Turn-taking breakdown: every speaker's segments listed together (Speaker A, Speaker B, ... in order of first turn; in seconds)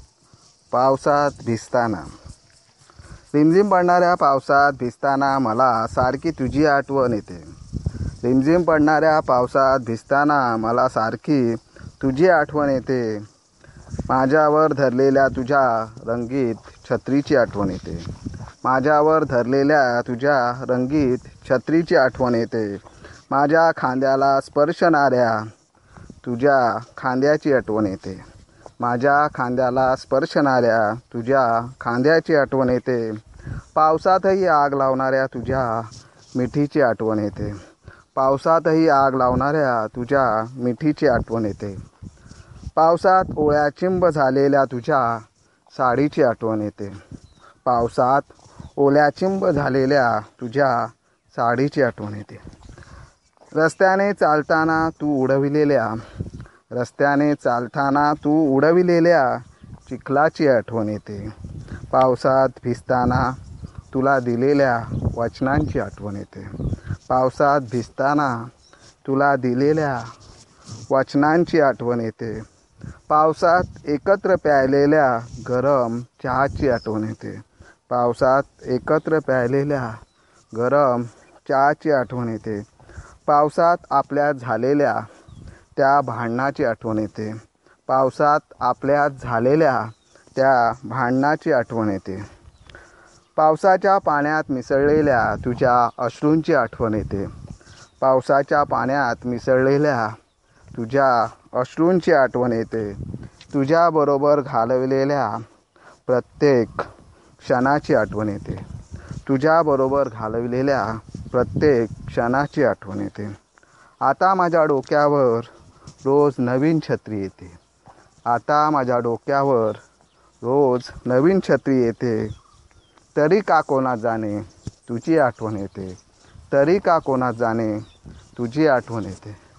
Speaker A: 0.7-2.1, 3.3-7.5, 8.2-13.3, 14.1-18.1, 18.6-25.5, 26.2-28.2, 28.8-33.2, 33.8-37.6, 38.1-41.8, 42.8-47.0, 47.6-52.4, 53.5-56.0, 56.7-61.3, 61.9-63.4, 63.9-68.5, 69.0-70.1, 70.9-72.4, 73.1-80.0, 80.5-82.7, 83.3-85.0, 85.8-87.4, 87.9-92.2, 93.4-97.3, 98.0-100.2, 100.7-105.4, 106.1-106.9, 107.4-108.6, 109.2-113.3, 114.0-115.5, 116.0-117.6, 118.3-119.8, 120.4-122.3, 123.2-126.0, 126.5-127.8, 128.4-129.4